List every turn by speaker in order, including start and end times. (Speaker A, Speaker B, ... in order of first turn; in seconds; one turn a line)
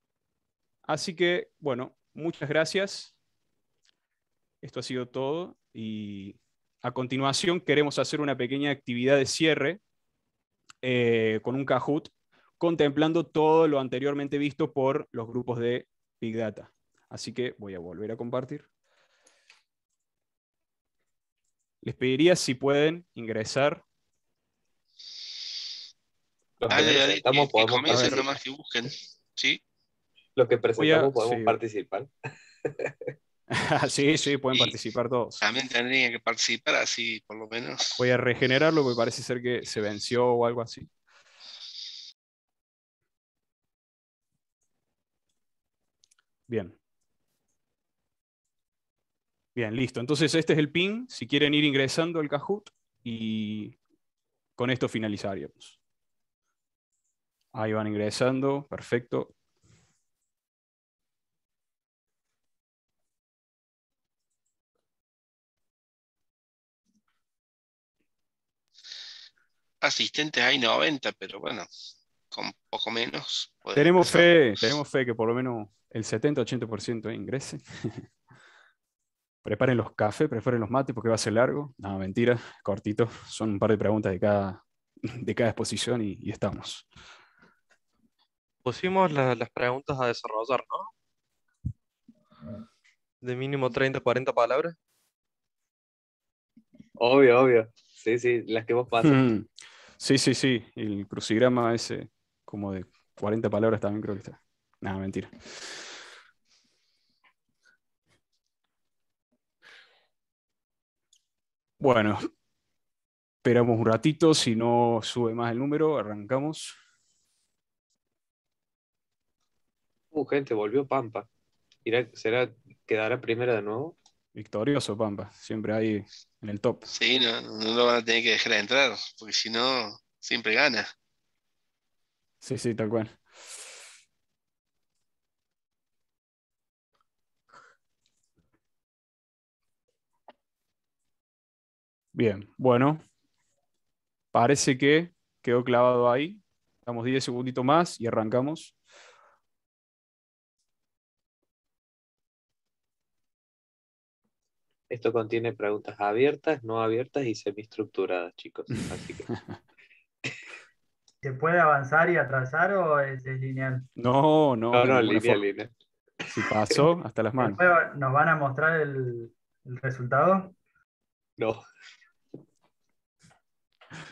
Speaker A: 0.8-3.1
Speaker A: 4.6-9.8
Speaker A: 10.8-18.6
Speaker A: 21.8-23.8
Speaker B: 26.6-28.4
Speaker C: 26.7-29.6
Speaker B: 30.4-32.1
Speaker A: 30.8-31.6
Speaker B: 32.6-32.9
Speaker A: 33.5-35.4
Speaker C: 35.4-38.0
Speaker A: 38.0-40.9
Speaker A: 46.5-46.8
Speaker A: 49.5-53.8
Speaker A: 54.6-55.8
Speaker A: 57.5-59.3
Speaker C: 69.8-71.7
Speaker C: 72.3-74.3
Speaker A: 73.7-78.0
Speaker A: 79.4-86.8
Speaker D: 88.6-90.9
Speaker D: 93.2-94.7
Speaker B: 97.0-99.2
Speaker A: 99.0-99.5
Speaker A: 100.0-105.3
Speaker A: 111.8-112.2
Speaker A: 113.4-116.7
Speaker B: 120.1-121.3
Speaker B: 121.8-124.0
Speaker A: 124.3-126.9
Speaker C: 126.9-130.9
Speaker A: 132.4-133.2
Speaker A: 142.1-143.0
Speaker A: 144.3-148.7
Speaker B: 154.9-159.3
Speaker E: 161.2-163.8
Speaker A: 164.0-165.4
Speaker B: 164.7-165.7
Speaker A: 166.3-167.6
Speaker B: 166.4-166.8
Speaker E: 167.4-170.5
Speaker B: 171.4-171.6